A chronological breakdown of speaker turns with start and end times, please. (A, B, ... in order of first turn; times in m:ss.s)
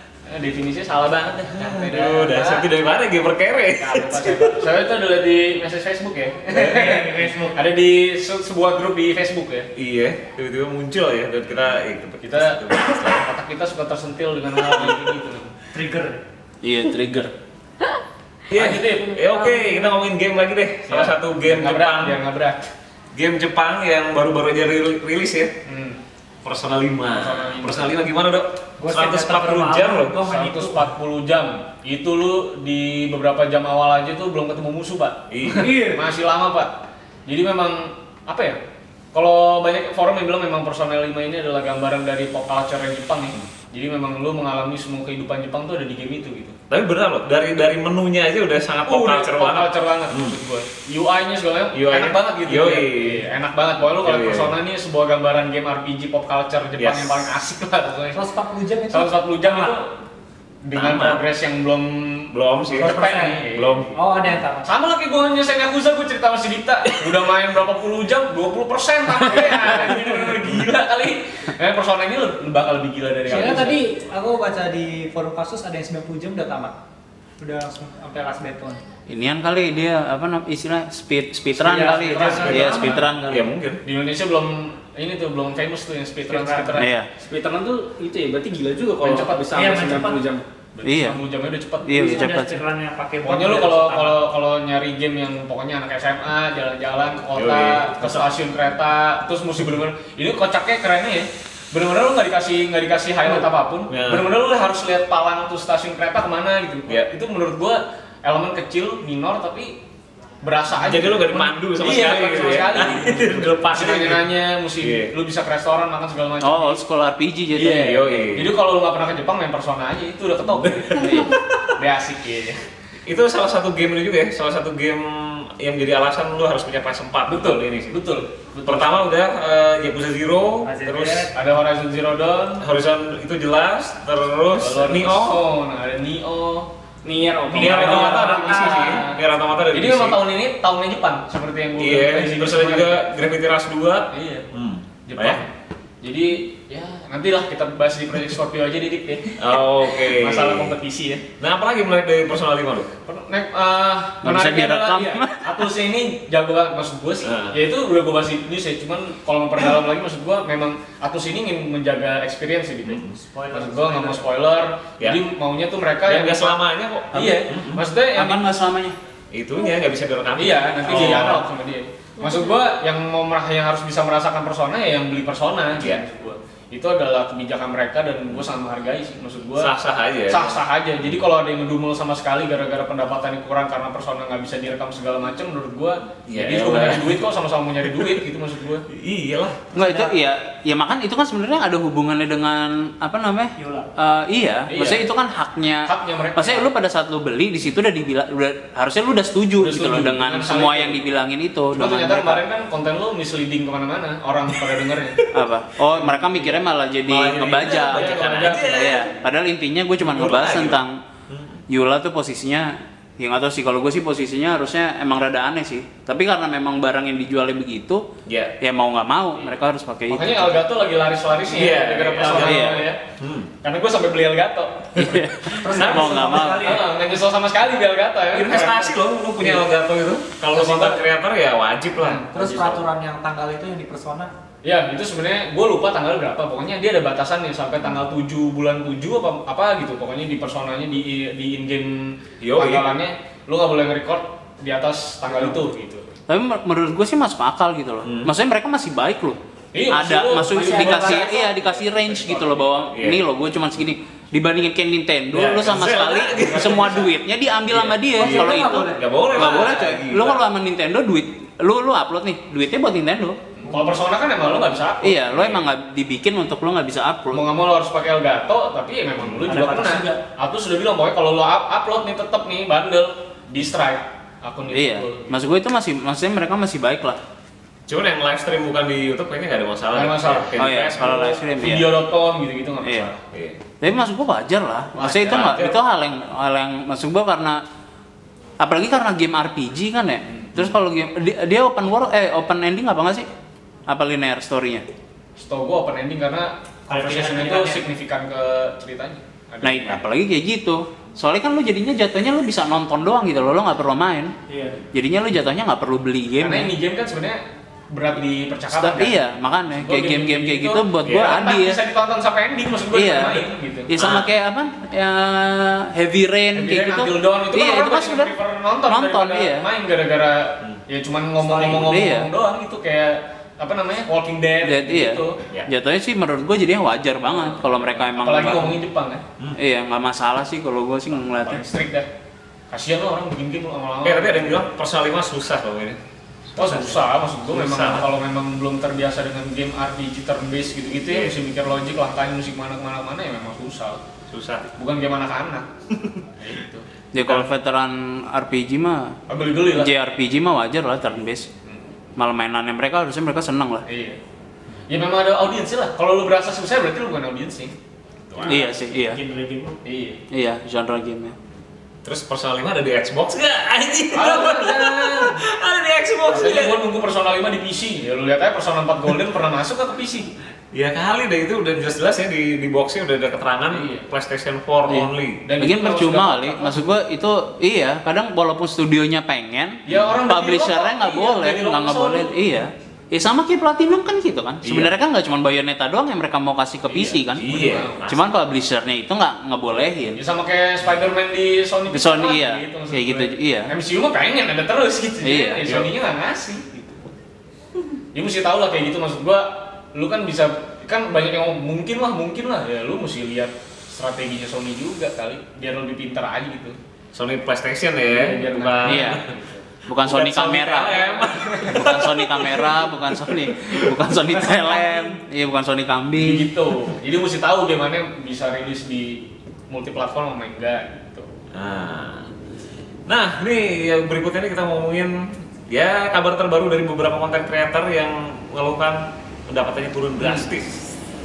0:00.3-0:02.7 A
0:01.6-0:04.5 B
0:03.8-0:09.7 A
0:06.5-0:07.1 B
0:06.6-0:07.6 C
0:09.8-0:13.3 B
0:12.2-0:15.5 A
0:15.7-0:16.2 C
0:16.6-0:17.3 D
0:18.5-0:22.2 B
0:18.5-0:19.2 A
0:20.9-0:22.7 A
0:23.1-0:25.5 B
0:25.7-0:26.0 A
0:26.4-0:30.2 B
0:27.1-0:28.0 A
0:28.8-0:30.9 C
0:30.2-0:36.7 A
0:35.3-0:35.8 B
0:35.5-0:36.1 C
0:37.3-0:38.6 A
0:39.1-0:46.6 A
0:46.7-0:50.4 B
0:48.9-0:58.2 A
0:51.7-0:53.2 B
0:54.0-0:54.6 B
0:56.8-0:57.2 B
0:58.1-0:59.8 C
0:58.9-1:00.0 A
1:00.6-1:03.9 A
1:00.8-1:01.2 B
1:02.3-1:04.4 B
1:02.8-1:04.7 C
1:04.6-1:13.8 A
1:13.3-1:16.8 C
1:17.4-1:18.8 C
1:19.1-1:23.5 D
1:21.6-1:23.0 C
1:21.8-1:23.0 A
1:22.5-1:23.8 B
1:23.8-1:26.9 A
1:26.3-1:26.8 C
1:26.8-1:27.1 D
1:27.2-1:30.5 E
1:29.0-1:29.5 A
1:29.5-1:30.2 C
1:30.7-1:32.2 A
1:30.8-1:31.2 D
1:31.8-1:32.6 D
1:31.9-1:34.2 C
1:33.2-1:49.8 A
1:37.4-1:38.3 B
1:43.3-1:44.3 B
1:50.4-1:56.8 A
1:50.8-1:54.3 B
1:54.8-1:55.1 B
1:56.4-1:58.2 D
1:57.5-2:02.6 A
1:57.7-1:58.5 B
2:00.6-2:01.4 B
2:01.0-2:01.3 D
2:03.1-2:08.0 B
2:07.3-2:09.0 A
2:08.7-2:11.3 B
2:10.6-2:11.3 C
2:11.3-2:12.6 A
2:12.6-2:15.4 B
2:14.6-2:16.7 A
2:17.0-2:18.4 E
2:17.5-2:19.0 C
2:17.5-2:23.0 A
2:17.6-2:20.2 B
2:21.8-2:25.4 B
2:24.1-2:24.5 A
2:25.1-2:31.3 A
2:29.4-2:30.8 B
2:31.4-2:32.9 B
2:33.1-2:46.6 A
2:34.2-2:35.7 D
2:37.2-2:37.6 B
2:42.8-2:43.2 B
2:43.2-2:44.2 C
2:46.1-2:47.8 B
2:47.1-2:48.4 A
2:48.1-2:49.0 D
2:49.3-2:51.4 B
2:50.4-2:59.7 A
2:55.8-2:56.0 B
2:59.6-3:00.6 B
3:00.3-3:08.9 A
3:06.3-3:07.2 B
3:08.9-3:09.7 B
3:09.7-3:22.4 D
3:09.8-3:10.1 C
3:13.6-3:13.9 C
3:14.7-3:15.1 A
3:15.9-3:16.7 A
3:19.6-3:21.0 A
3:21.7-3:25.3 A
3:25.3-3:31.0 D
3:26.0-3:26.6 A
3:27.1-3:29.1 B
3:27.4-3:29.2 A
3:30.0-3:31.6 B
3:31.7-3:38.1 D
3:38.3-3:38.5 B
3:38.6-3:40.6 D
3:40.1-3:43.0 A
3:41.5-3:43.5 B
3:42.2-3:42.9 D
3:43.6-3:49.7 A
3:45.0-3:46.8 D
3:45.5-3:46.9 C
3:48.3-3:52.8 B
3:50.5-3:51.1 A
3:52.3-3:54.3 C
3:54.6-4:06.1 A
4:02.4-4:02.9 B
4:06.3-4:23.4 D
4:08.0-4:08.3 B
4:09.7-4:12.7 A
4:10.5-4:11.4 C
4:12.9-4:13.2 B
4:15.3-4:17.1 B
4:17.7-4:20.4 B
4:18.2-4:19.2 C
4:23.6-4:25.7 A
4:25.0-4:27.4 D
4:27.3-4:35.3 A
4:29.2-4:29.6 B
4:29.5-4:30.2 C
4:34.7-4:37.2 D
4:37.9-4:41.4 B
4:39.9-4:43.2 A
4:40.6-4:41.9 D
4:42.8-4:43.1 D
4:43.3-4:43.6 B
4:43.8-4:47.6 D
4:45.0-4:45.6 A
4:45.0-4:45.8 B
4:48.6-4:53.3 D
4:53.9-4:54.9 D
4:55.4-5:00.0 A
4:56.9-4:57.8 C
4:59.6-5:04.3 D
5:04.5-5:04.8 C
5:04.9-5:06.7 D
5:06.4-5:13.9 A
5:08.7-5:11.8 D
5:12.9-5:18.3 D
5:14.0-5:14.3 B
5:16.6-5:25.4 A
5:18.9-5:19.7 D
5:21.6-5:22.3 D
5:24.6-5:28.8 D
5:28.1-5:29.2 A
5:29.6-5:31.7 D
5:31.2-5:32.1 A
5:32.7-5:34.6 A
5:34.0-5:36.0 B
5:36.5-5:38.1 B
5:36.6-5:44.0 A
5:44.3-5:44.7 B
5:44.8-5:45.7 A
5:46.4-5:47.5 A
5:47.1-5:49.2 D
5:49.3-5:49.9 A
5:49.7-5:51.5 D
5:52.2-5:53.8 D
5:53.9-5:54.2 A
5:54.9-5:57.7 A
5:58.3-5:58.7 A
5:58.4-5:59.8 C
5:58.5-5:59.2 D
5:59.8-6:00.2 A
6:00.3-6:01.4 D
6:02.0-6:06.8 B
6:04.1-6:05.4 A
6:06.3-6:10.3 A
6:10.7-6:15.4 B
6:13.7-6:14.1 A
6:14.9-6:16.8 A
6:15.6-6:30.2 D
6:19.9-6:22.4 A
6:24.6-6:24.9 B
6:26.9-6:28.0 A
6:27.4-6:28.2 B
6:30.2-6:37.1 A
6:31.9-6:33.7 D
6:35.2-6:35.7 D
6:38.1-6:46.8 A
6:47.1-6:49.3 B
6:48.1-6:49.6 A
6:48.8-6:49.3 D
6:49.9-6:51.0 D
6:50.0-6:52.9 B
6:50.7-6:52.1 A
6:51.6-6:56.5 D
6:54.6-6:55.2 C
6:56.2-7:01.3 A
7:01.5-7:02.3 B
7:03.1-7:10.8 B
7:10.2-7:10.5 A